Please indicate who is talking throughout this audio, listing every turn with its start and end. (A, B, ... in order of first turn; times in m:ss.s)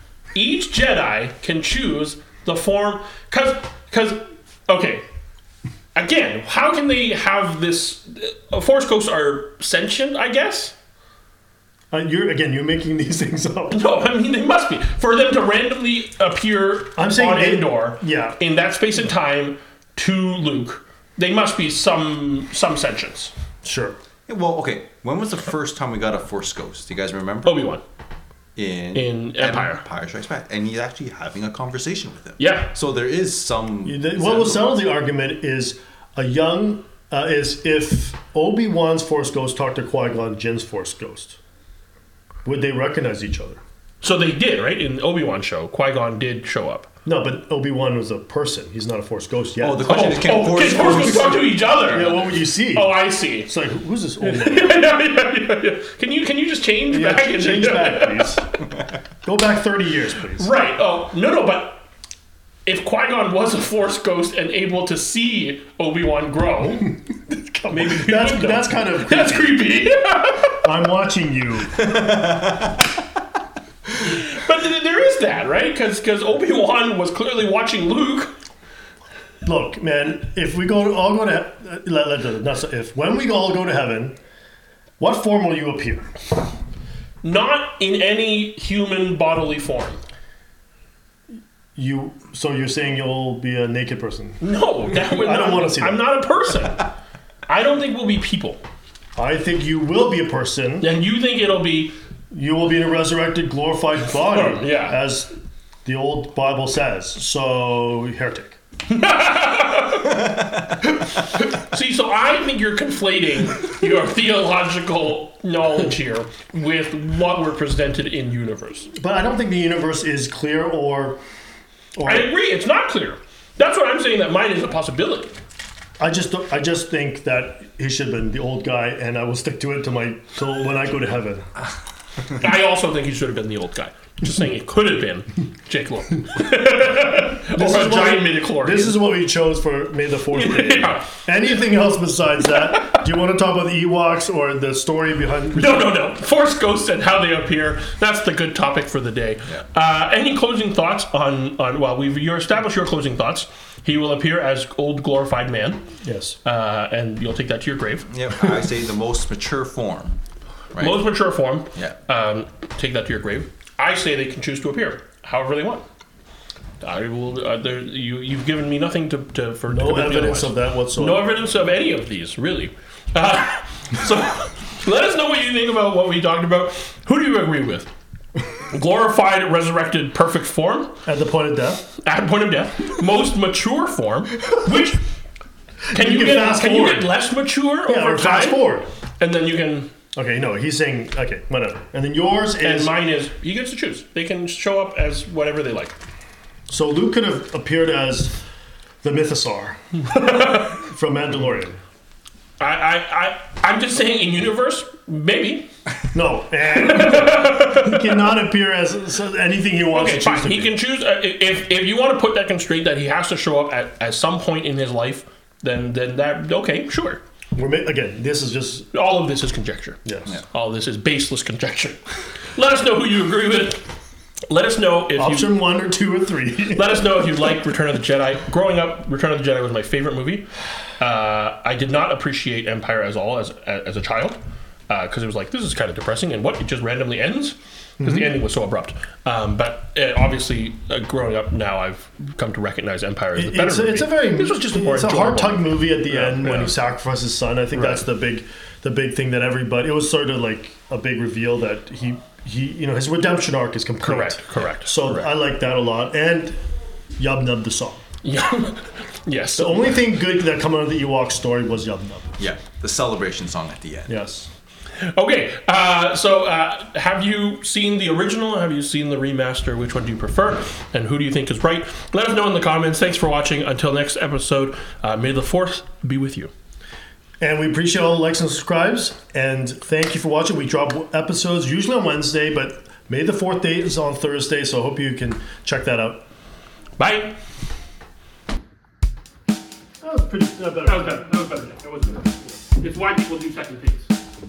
0:00.4-0:05.0 A
0:06.0-0:10.8 A
0:11.9-0:13.8 B
0:13.7-0:23.3 A
0:17.0-0:18.4 B
0:23.6-0:24.0 B
0:24.3-0:27.6 C
0:27.4-0:27.8 A
0:28.6-0:34.8 C
0:28.9-0:29.8 A
0:32.4-0:32.7 A
0:33.8-0:41.4 B
0:42.4-0:43.6 B
0:44.0-0:46.9 A
0:47.1-0:51.2 B
0:49.6-0:52.3 C
0:49.8-0:53.5 A
0:51.9-0:54.8 B
0:54.2-0:58.4 A
0:56.9-0:58.4 B
0:59.2-1:00.5 B
1:00.4-1:01.8 A
1:02.7-1:07.0 A
1:07.3-1:09.6 B
1:07.7-1:10.6 A
1:10.6-1:11.9 B
1:11.9-1:12.7 C
1:14.0-1:18.3 A
1:19.4-1:24.2 B
1:25.0-1:26.1 B
1:27.2-1:30.0 A
1:31.8-1:36.1 B
1:34.4-1:36.9 A
1:37.5-1:38.6 A
1:39.2-1:40.9 B
1:40.8-1:42.0 A
1:42.3-1:45.3 B
1:44.3-1:45.0 A
1:45.8-1:48.6 B
1:48.9-1:50.3 A
1:51.3-1:58.9 A
1:58.9-2:01.2 B
2:02.0-2:02.3 B
2:02.0-2:05.3 A
2:06.0-2:11.5 B
2:12.3-2:19.0 A
2:17.5-2:26.0 B
2:20.3-2:21.1 A
2:25.5-2:35.8 A
2:36.0-2:36.4 B
2:36.4-2:38.1 A
2:38.1-2:40.2 C
2:40.7-2:41.1 C
2:40.8-2:45.8 A
2:46.8-2:57.9 A
2:49.7-2:51.3 B
2:58.7-3:01.0 A
3:01.0-3:01.8 B
3:02.0-3:05.0 A
3:05.9-3:07.1 B
3:05.9-3:08.6 A
3:07.9-3:08.9 B
3:09.2-3:09.9 A
3:10.1-3:13.0 B
3:12.6-3:15.9 A
3:16.7-3:18.4 B
3:19.0-3:19.8 B
3:20.0-3:20.8 A
3:20.7-3:21.8 B
3:22.6-3:25.7 A
3:26.1-3:30.8 B
3:26.8-3:28.2 A
3:29.9-3:37.2 A
3:37.6-3:38.9 B
3:38.9-3:42.0 A
3:42.5-3:43.8 A
3:44.5-3:45.6 A
3:45.2-3:47.2 B
3:46.7-3:50.5 A
3:51.0-3:54.4 A
3:54.9-4:06.8 A
3:58.0-3:58.4 B
4:03.4-4:16.6 B
4:07.7-4:08.0 A
4:14.0-4:15.3 A
4:17.2-4:18.0 B
4:18.2-4:20.0 A
4:19.6-4:22.4 B
4:22.4-4:24.1 C
4:24.1-4:24.5 B
4:25.0-4:36.5 A
4:37.4-4:46.2 B
4:47.0-4:47.4 A
4:50.0-4:51.3 B
4:50.8-4:54.1 A